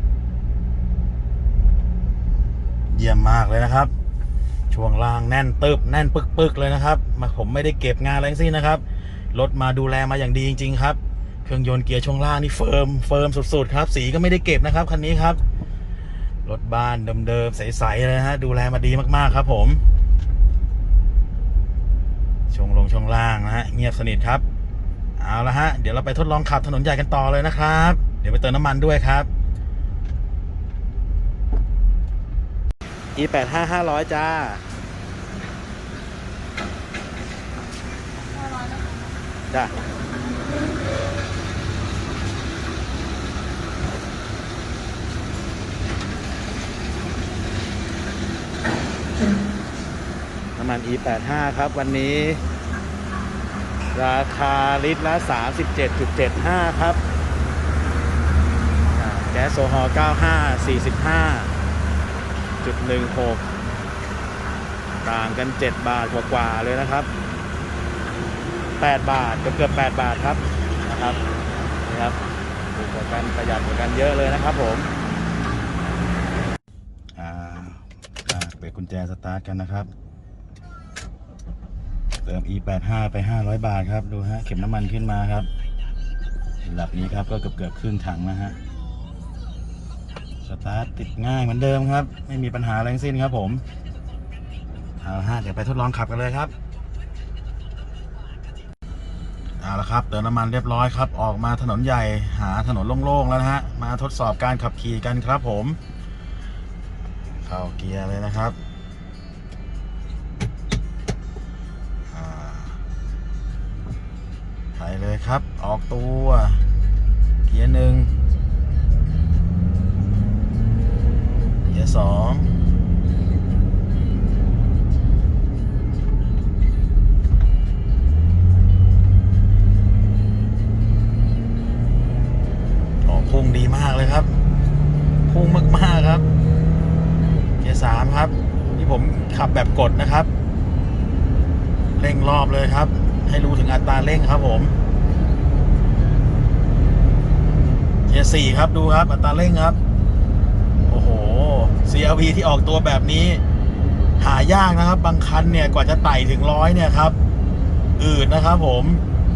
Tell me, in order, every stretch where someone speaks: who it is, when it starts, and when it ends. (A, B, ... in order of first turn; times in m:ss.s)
0:02.9-0:03.9 A
0:04.7-0:15.4 A
0:16.4-0:19.8 A
0:22.5-0:24.4 A
0:25.2-0:29.3 A
0:33.2-0:34.6 A
0:50.6-0:52.4 A
0:53.9-0:57.0 A
0:58.9-1:01.5 A
1:02.6-1:03.4 A
1:05.0-1:07.1 A
1:08.8-1:11.2 A
1:11.8-1:12.2 A
1:12.7-1:14.9 A
1:17.2-1:19.9 A
1:22.2-1:25.5 A
1:26.6-1:28.6 A
1:30.4-1:33.6 A
1:35.0-1:36.5 A
1:39.6-1:45.8 A
1:47.4-1:48.6 A
1:52.1-1:52.8 A
1:54.7-1:56.6 A
1:57.5-1:58.1 A
2:01.7-2:02.6 A
2:13.0-2:14.3 A
2:15.3-2:16.2 A
2:17.6-2:20.3 A
2:22.0-2:24.7 A
2:28.1-2:29.8 A
2:30.9-2:33.4 A
2:34.2-2:37.2 A
2:38.0-2:39.0 A